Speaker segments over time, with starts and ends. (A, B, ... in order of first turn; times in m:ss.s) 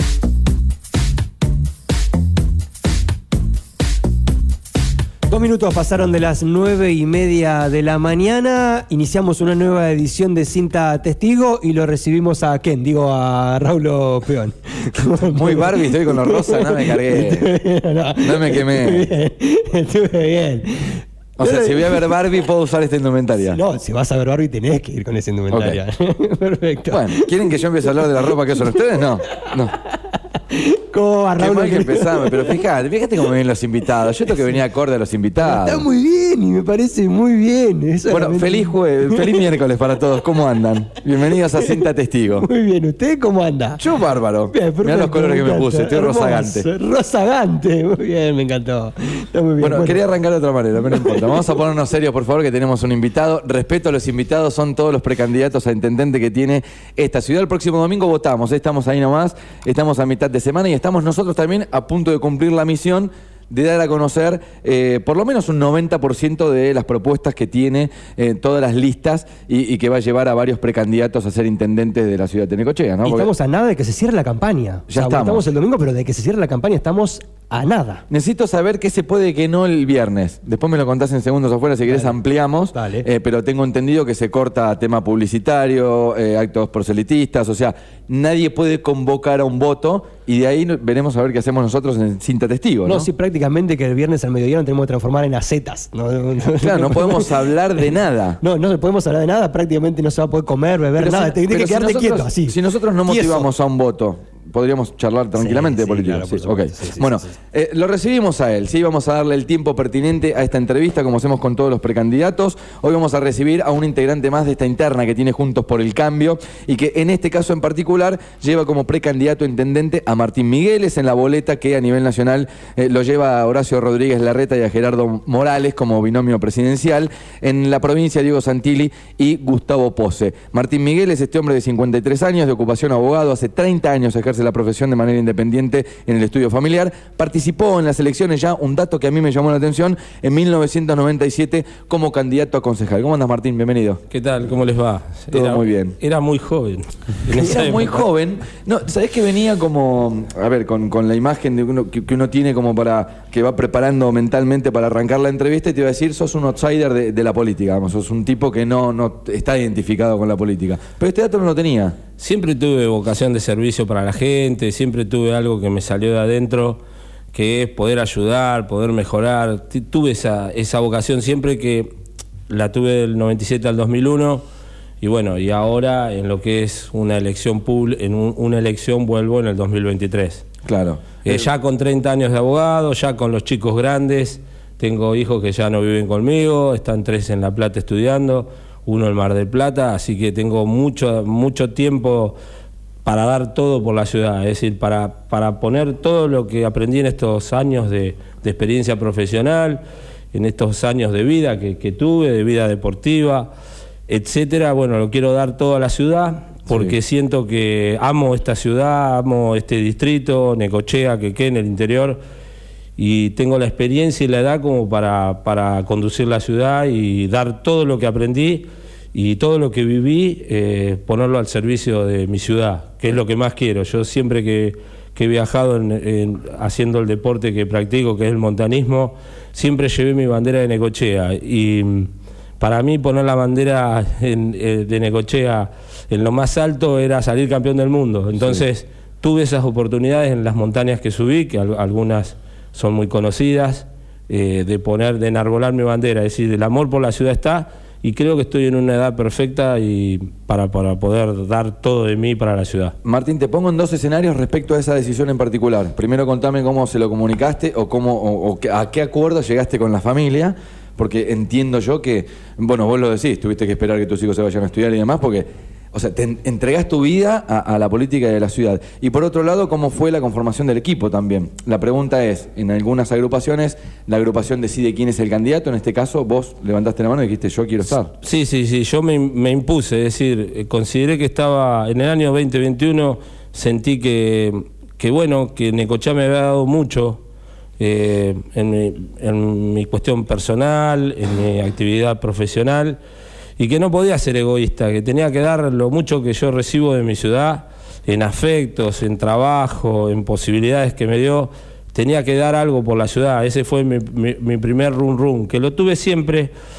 0:05.3-0:22.1 A
0:15.2-0:17.5 B
0:18.2-0:19.1 B
0:21.4-0:23.6 B
0:23.5-0:27.5 A
0:25.5-0:25.8 B
0:26.9-0:29.8 B
0:29.3-0:32.6 A
0:31.4-0:35.8 B
0:35.4-0:39.5 A
0:38.1-0:42.5 B
0:42.4-0:43.8 A
0:43.8-0:46.7 B
0:44.5-0:50.0 A
0:49.6-1:13.3 B
0:50.9-0:51.4 A
1:13.0-1:18.0 A
1:14.9-1:15.4 B
1:18.1-1:33.1 B
1:21.9-1:22.2 A
1:22.7-1:23.0 A
1:32.8-1:43.5 A
1:36.6-1:38.4 B
1:41.0-2:24.0 B
1:45.4-1:47.3 A
2:24.1-2:28.0 C
2:25.3-2:26.0 B
2:27.3-2:42.0 B
2:42.2-2:46.8 C
2:47.3-2:51.9 C
2:52.5-2:54.4 C
2:55.0-3:00.4 C
3:00.6-3:01.5 B
3:01.2-3:12.4 C
3:13.0-3:19.8 C
3:20.3-3:23.5 C
3:24.1-3:32.2 C
3:26.7-3:26.9 B
3:33.0-4:12.9 C
3:58.4-3:58.6 B
4:13.0-4:38.1 B
4:38.2-4:47.2 C
4:47.8-4:53.0 C
4:53.6-5:06.5 C